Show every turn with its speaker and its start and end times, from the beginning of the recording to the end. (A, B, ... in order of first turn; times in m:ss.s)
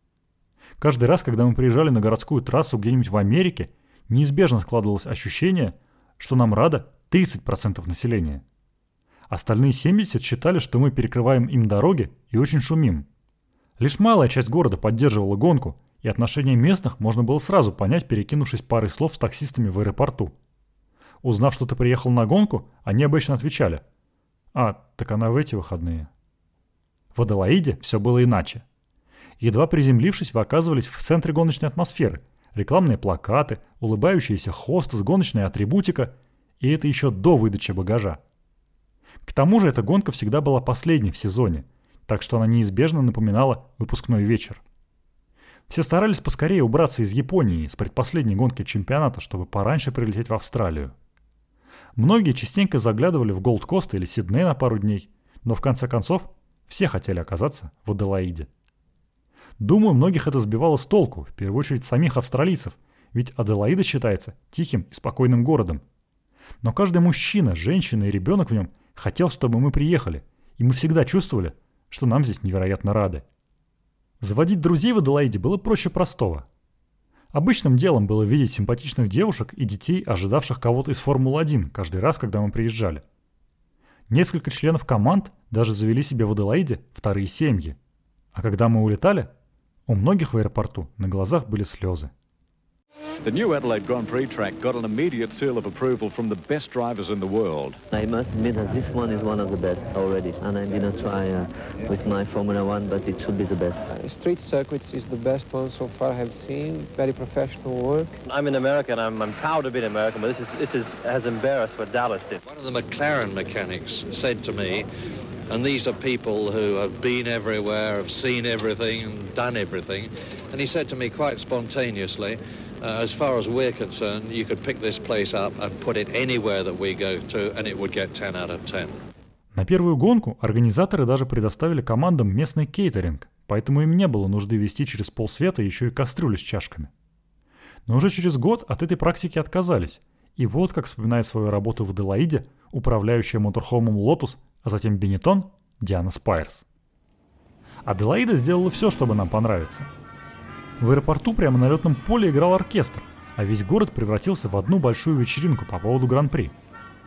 0:00.8-0:08.4 A
0:09.3-0:13.1 A
0:13.8-0:20.4 A
0:21.2-0:23.8 A
0:24.5-0:26.1 A
0:27.1-0:28.6 A
0:29.4-0:38.2 A
0:39.2-0:44.6 A
0:45.7-0:51.0 A
0:52.0-0:58.5 A
0:59.6-1:05.8 A
1:06.6-1:13.2 A
1:14.2-1:16.5 A
1:17.3-1:23.0 A
1:24.1-1:27.8 A
1:28.3-1:29.3 A
1:29.9-1:32.1 A
1:33.2-1:37.8 B
1:37.9-1:43.9 C
1:43.9-1:48.2 D
1:48.3-1:52.4 E
1:52.5-1:54.9 F
1:55.5-2:09.0 F
2:09.5-2:16.9 A
2:17.9-2:26.6 A
2:27.8-2:29.9 A
2:30.8-2:36.6 A